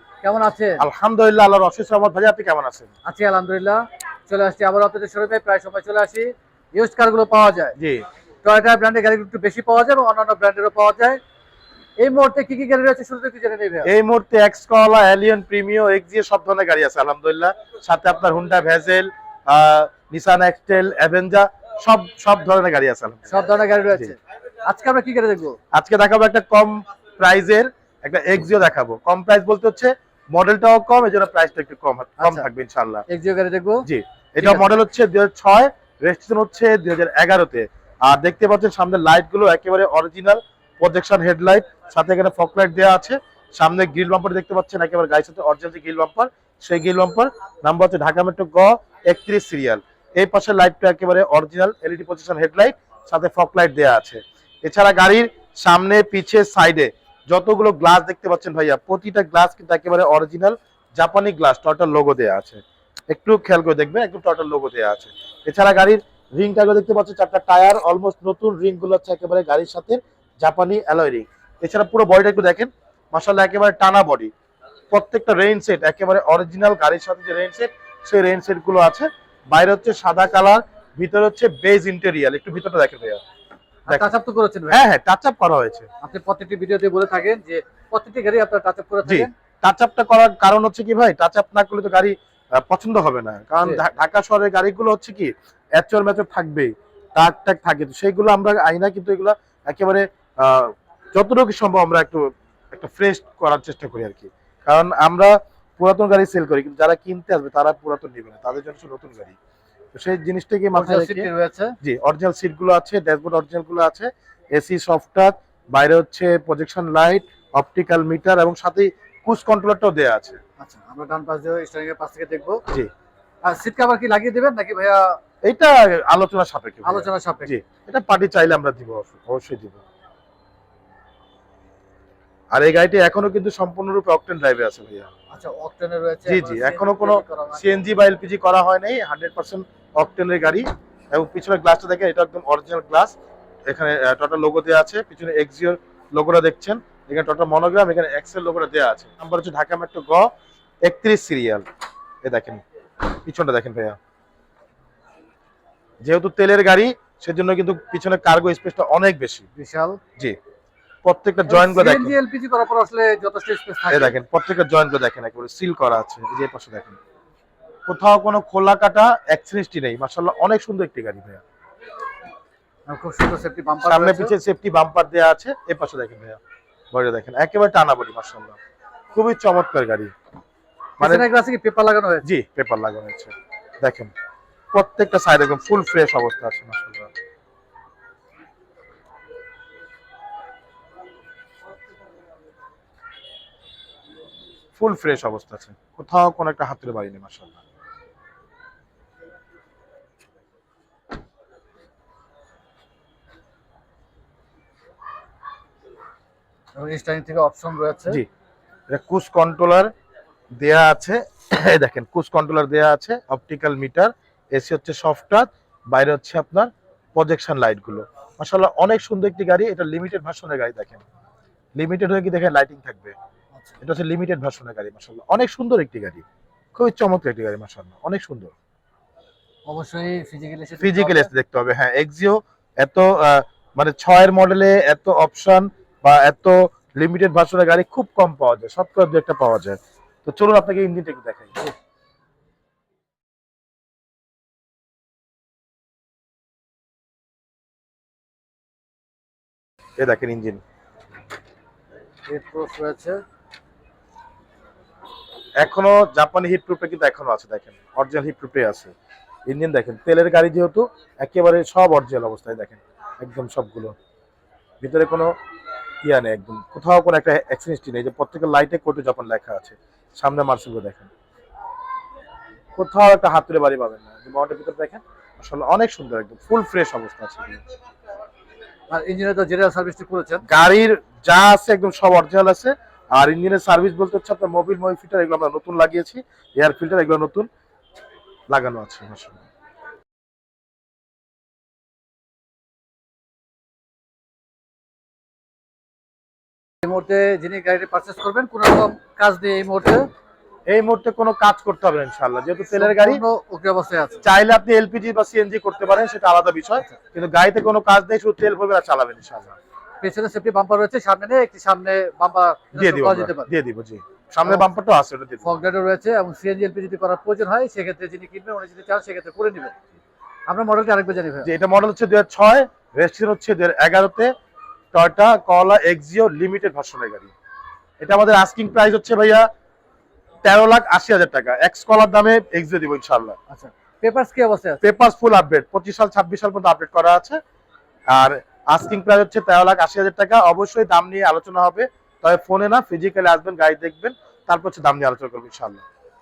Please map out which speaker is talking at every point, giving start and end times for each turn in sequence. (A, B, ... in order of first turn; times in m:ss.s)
0:00.2-0:00.8 A
0:00.8-0:02.9 B
0:03.0-0:07.7 A
0:07.8-0:08.0 B
0:08.4-0:11.2 A
0:12.0-0:13.9 A
0:13.8-0:23.3 B
0:23.3-0:25.6 A
0:25.7-0:33.0 B
0:32.2-0:32.4 A
0:33.1-0:33.9 A
0:33.8-1:14.3 B
0:34.4-0:34.7 A
1:14.9-1:23.2 B
1:23.9-1:24.8 A
1:24.7-1:25.9 B
1:26.0-1:29.3 A
1:29.0-1:49.4 B
1:49.9-1:51.3 B
1:50.7-1:51.7 A
1:51.8-2:00.4 B
2:00.6-2:02.6 A
2:03.4-2:05.2 A
2:05.4-2:09.8 B
2:06.8-2:07.5 A
2:12.5-2:15.1 B
2:15.3-2:17.8 A
2:16.2-2:23.1 B
2:23.7-2:30.3 B
2:30.8-2:31.6 B
2:32.2-2:32.6 B
2:33.2-2:34.0 B
2:36.0-2:39.4 B
2:39.6-2:40.0 A
2:41.0-2:42.2 B
2:41.5-2:44.1 A
2:43.9-2:47.0 B
2:47.9-2:51.4 B
2:52.9-2:54.3 A
2:53.8-2:56.4 B
2:56.9-2:58.6 B
2:59.1-3:00.1 B
3:01.0-3:02.2 A
3:01.0-3:01.3 B
3:02.2-3:04.1 B
3:04.7-3:07.1 B
3:14.8-3:17.6 B
3:26.8-3:28.2 A
3:28.9-3:29.9 B
3:30.6-3:41.0 B
3:41.8-3:43.2 B
3:43.8-3:46.2 B
3:46.8-3:48.5 B
3:49.7-3:51.3 A
3:50.8-4:01.7 B
4:10.0-4:10.6 B
4:12.3-4:13.2 A
4:15.6-4:18.9 B
4:19.5-4:23.9 B
4:24.8-4:25.3 B
4:26.0-4:31.1 B
4:32.8-4:37.6 B
4:38.9-4:40.4 A
4:40.4-4:47.5 B
4:48.5-4:49.4 B
4:56.8-5:00.1 A
5:00.7-5:03.2 B
5:02.8-5:04.2 A
5:04.2-5:09.6 B
5:10.0-5:13.5 A
5:12.7-5:15.6 B
5:15.4-5:19.7 A
5:20.5-5:21.5 A
5:21.4-5:24.3 B
5:24.9-5:27.3 B
5:28.0-5:29.5 B
5:30.4-5:33.4 B
5:33.5-5:34.8 A
5:34.8-5:37.4 B
5:38.1-5:45.8 B